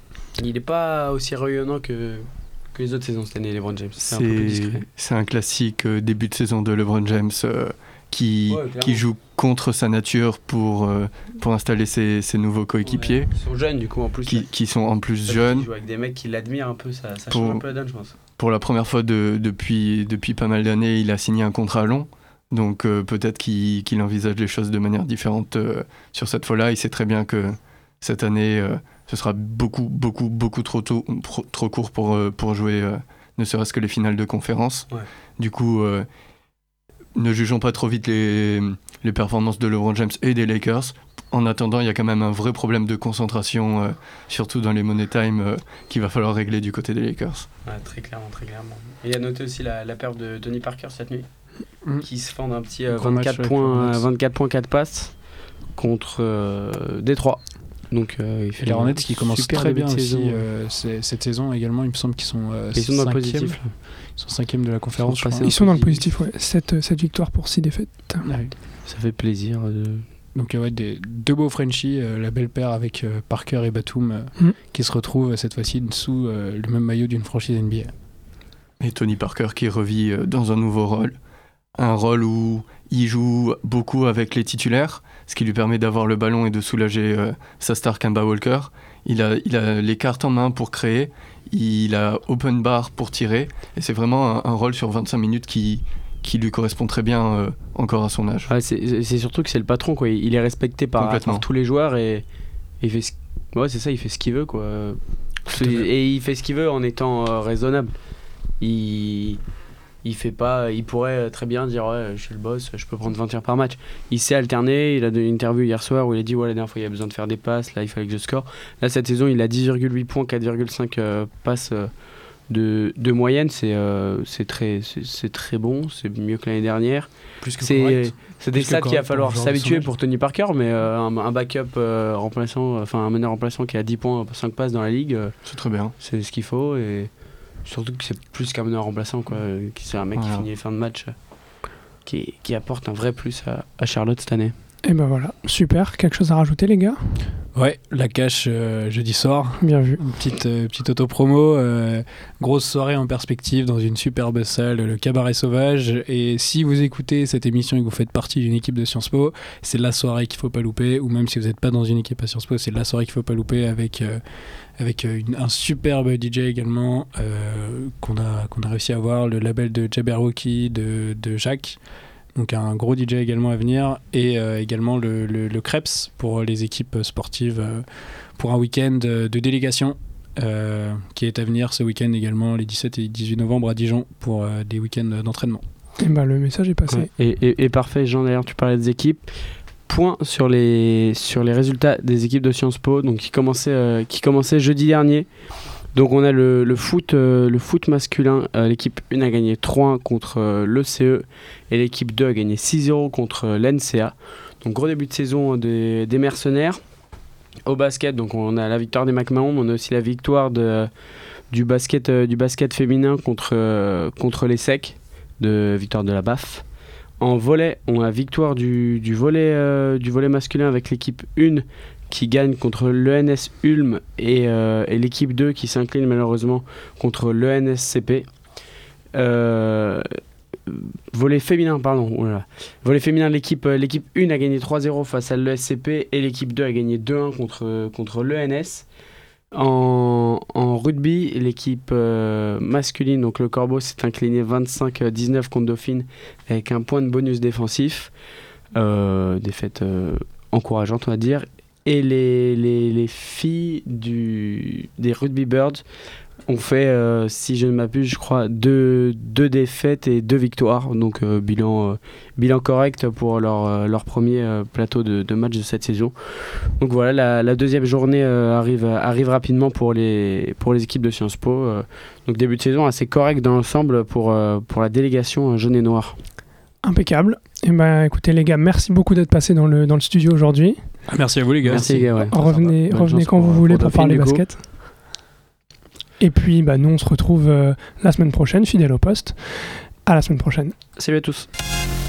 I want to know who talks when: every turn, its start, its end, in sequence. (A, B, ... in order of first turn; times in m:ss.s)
0:00.4-0:04.8 A
0:04.0-0:13.3 B
0:08.5-0:09.0 A
0:12.8-0:14.5 A
0:14.3-0:15.7 B
0:15.3-0:18.1 A
0:17.3-0:17.6 B
0:18.4-0:36.1 B
0:37.2-0:47.5 B
0:47.6-0:51.3 A
0:52.0-0:55.2 A
0:52.9-0:54.0 C
0:55.7-1:00.4 A
0:58.6-1:05.5 C
1:02.7-1:03.7 A
1:05.0-1:06.0 A
1:05.4-1:08.2 D
1:08.2-1:08.5 C
1:08.8-1:10.0 A
1:10.3-1:17.9 C
1:18.8-1:21.1 B
1:21.8-1:38.5 B
1:38.5-1:42.2 A
1:41.0-1:41.4 B
1:42.8-1:47.9 A
1:48.6-1:49.4 A
1:50.0-2:01.9 A
2:02.5-2:15.3 A
2:07.4-2:09.9 C
2:15.4-2:15.9 B
2:16.0-2:17.1 A
2:17.6-2:21.1 A
2:20.2-2:20.4 B
2:22.0-2:24.5 A
2:24.8-2:27.2 D
2:27.5-2:44.2 C
2:29.6-2:30.0 D
2:44.8-2:51.8 C
2:52.3-3:05.6 C
3:06.0-3:07.1 D
3:06.9-3:09.3 A
3:09.9-3:15.3 A
3:15.9-3:26.8 A
3:27.6-3:30.9 A
3:31.5-3:36.6 A
3:37.2-3:48.3 A
3:49.1-3:50.0 A
3:50.7-3:58.8 A
3:59.5-4:08.1 A
4:08.7-4:15.8 A
4:16.5-4:36.2 A
4:36.8-4:40.9 D
4:41.1-4:42.1 C
4:41.6-4:44.4 A
4:42.3-4:44.6 D
4:46.2-4:50.8 D
4:51.0-4:51.5 A